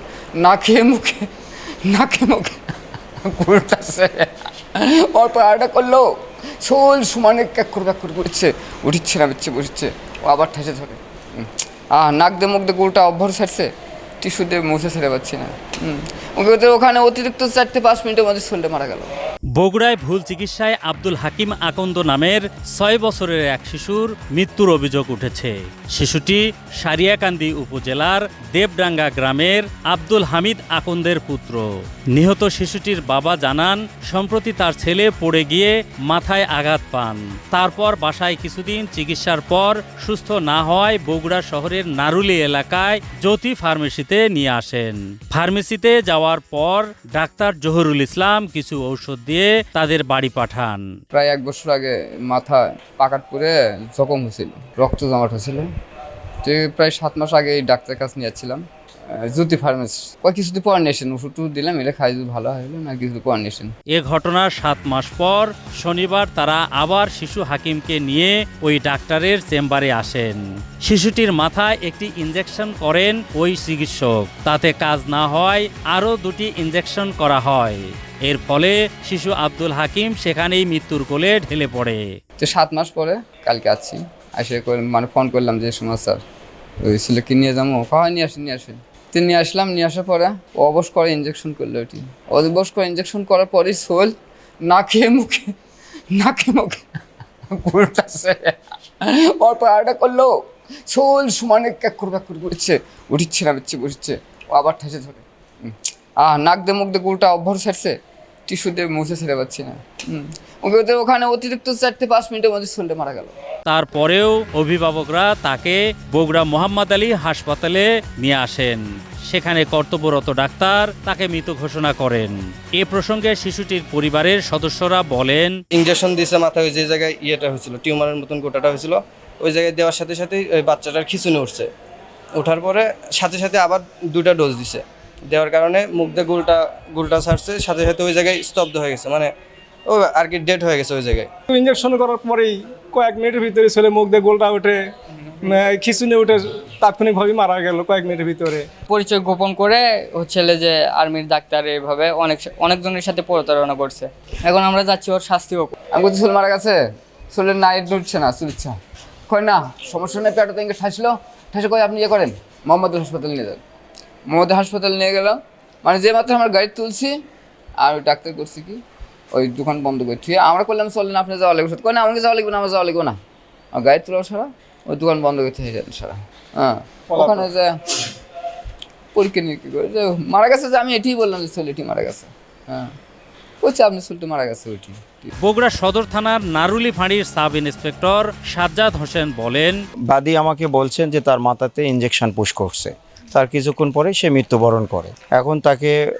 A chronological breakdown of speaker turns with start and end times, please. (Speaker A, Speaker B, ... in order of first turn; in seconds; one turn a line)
Speaker A: 0.4-1.3
Speaker A: 1.9-2.7
Speaker A: 3.2-6.1
Speaker A: 6.6-13.7
Speaker A: 14.2-19.1
Speaker B: 19.6-50.8
Speaker A: 51.1-55.7
Speaker A: 56.4-58.6
Speaker A: 59.1-63.7
Speaker B: 63.9-82.0
Speaker A: 82.4-86.2
Speaker A: 86.8-94.1
Speaker A: 94.7-95.5
Speaker A: 96.2-96.8
Speaker A: 97.5-100.3
Speaker A: 100.9-108.0
Speaker A: 108.5-113.3
Speaker B: 113.7-125.5
Speaker C: 125.7-131.7
Speaker C: 132.3-139.3
Speaker C: 139.9-141.3
Speaker D: 141.5-144.9
Speaker D: 145.4-148.7
Speaker E: 148.9-155.8
Speaker A: 155.9-156.8
Speaker A: 157.3-158.8
Speaker A: 159.3-163.6
Speaker A: 164.3-167.1
Speaker A: 167.8-168.8
Speaker A: 169.3-173.2
Speaker A: 173.7-178.1
Speaker D: 177.1-177.4
Speaker A: 179.1-182.9
Speaker A: 183.6-185.3
Speaker B: 185.4-189.8
Speaker F: 190.1-195.9